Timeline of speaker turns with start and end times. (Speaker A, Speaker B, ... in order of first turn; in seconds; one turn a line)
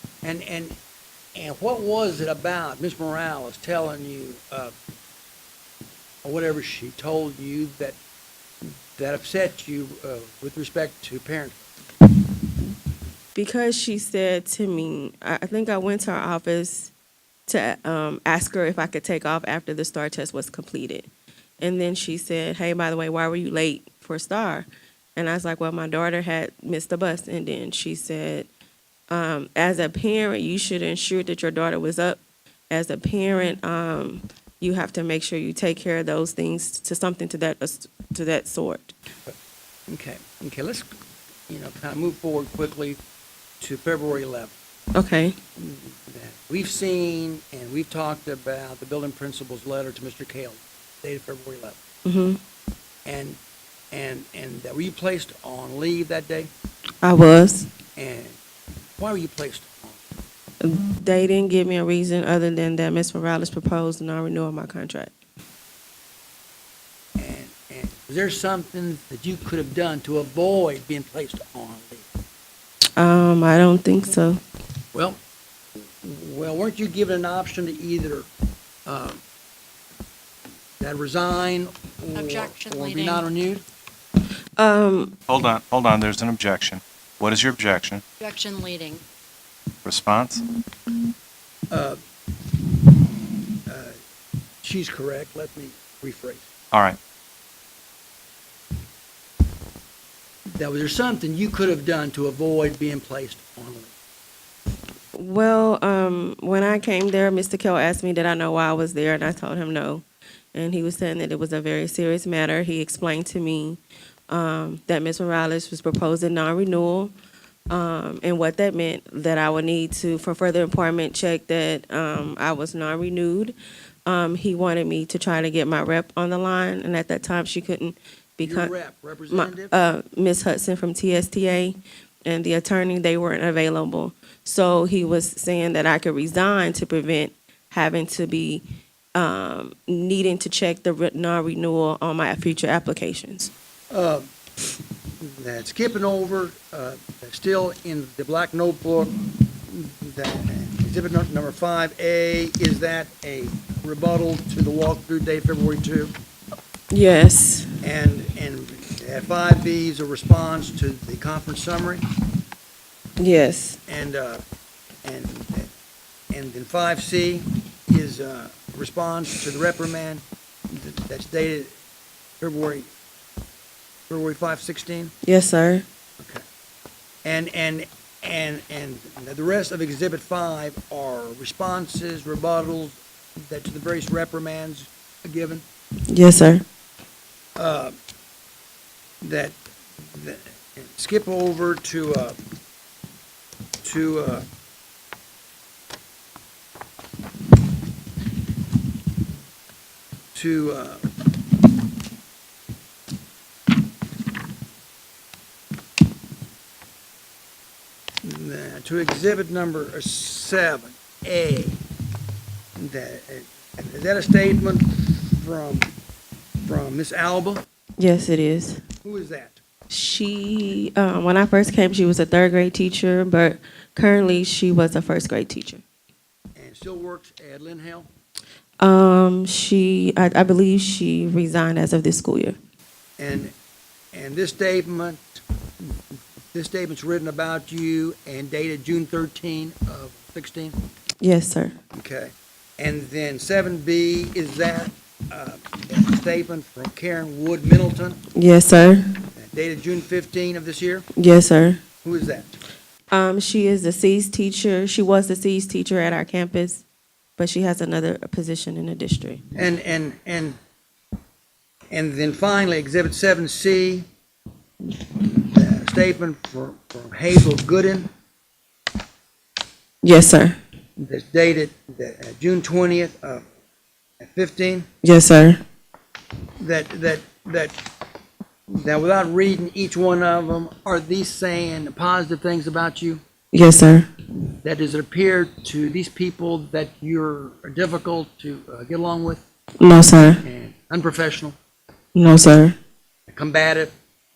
Speaker A: 0.2-0.7
Speaker A: 1.4-4.7
Speaker A: 6.2-8.0
Speaker A: 8.6-11.6
Speaker B: 13.3-16.9
Speaker B: 17.5-28.5
Speaker B: 29.1-38.9
Speaker A: 39.9-40.9
Speaker A: 41.5-43.0
Speaker A: 43.6-44.5
Speaker B: 44.9-45.4
Speaker A: 45.6-51.8
Speaker B: 52.0-52.4
Speaker A: 53.0-53.4
Speaker A: 53.9-56.5
Speaker B: 57.0-57.7
Speaker A: 58.0-58.4
Speaker A: 59.0-60.0
Speaker B: 60.6-65.1
Speaker A: 67.2-72.1
Speaker B: 73.0-74.4
Speaker A: 74.9-75.2
Speaker A: 75.8-78.3
Speaker A: 78.8-79.2
Speaker A: 80.8-83.6
Speaker C: 82.1-83.2
Speaker B: 84.6-85.2
Speaker D: 85.3-88.0
Speaker C: 88.2-89.0
Speaker D: 89.8-90.4
Speaker A: 91.7-92.0
Speaker A: 93.7-94.0
Speaker A: 94.6-96.5
Speaker D: 96.7-97.0
Speaker A: 100.5-103.9
Speaker B: 105.1-117.1
Speaker B: 117.7-128.7
Speaker A: 128.4-129.7
Speaker B: 129.3-138.6
Speaker B: 139.1-143.5
Speaker A: 143.9-144.3
Speaker A: 145.2-156.1
Speaker B: 156.9-157.7
Speaker A: 157.8-162.0
Speaker B: 163.2-163.8
Speaker A: 163.9-164.4
Speaker A: 165.0-165.7
Speaker A: 166.3-171.7
Speaker A: 172.4-172.9
Speaker A: 174.1-175.1
Speaker B: 175.2-175.8
Speaker A: 177.2-185.6
Speaker B: 186.1-186.6
Speaker A: 187.6-187.9
Speaker A: 189.2-192.4
Speaker A: 193.8-194.4
Speaker A: 200.3-201.1
Speaker A: 208.2-211.8
Speaker A: 212.8-215.9
Speaker A: 216.6-217.6
Speaker B: 218.0-218.8
Speaker A: 219.0-219.6
Speaker B: 219.9-225.8
Speaker A: 226.6-228.1
Speaker B: 228.8-232.6
Speaker A: 233.2-233.5
Speaker A: 234.1-240.8
Speaker B: 241.2-241.7
Speaker A: 241.9-248.2
Speaker B: 248.3-249.1
Speaker A: 249.3-251.1
Speaker B: 251.2-251.8
Speaker A: 252.0-252.5
Speaker B: 253.1-256.8
Speaker B: 257.4-259.4
Speaker A: 259.5-260.6
Speaker A: 261.9-264.0
Speaker A: 265.0-268.1
Speaker B: 270.0-270.6
Speaker A: 271.0-273.4
Speaker A: 274.2-274.9
Speaker B: 275.0-275.6
Speaker A: 276.6-277.8
Speaker A: 278.7-283.2
Speaker B: 283.5-284.1
Speaker A: 284.5-289.4
Speaker B: 289.8-290.4
Speaker A: 290.4-291.6
Speaker B: 292.1-292.8
Speaker A: 293.3-293.9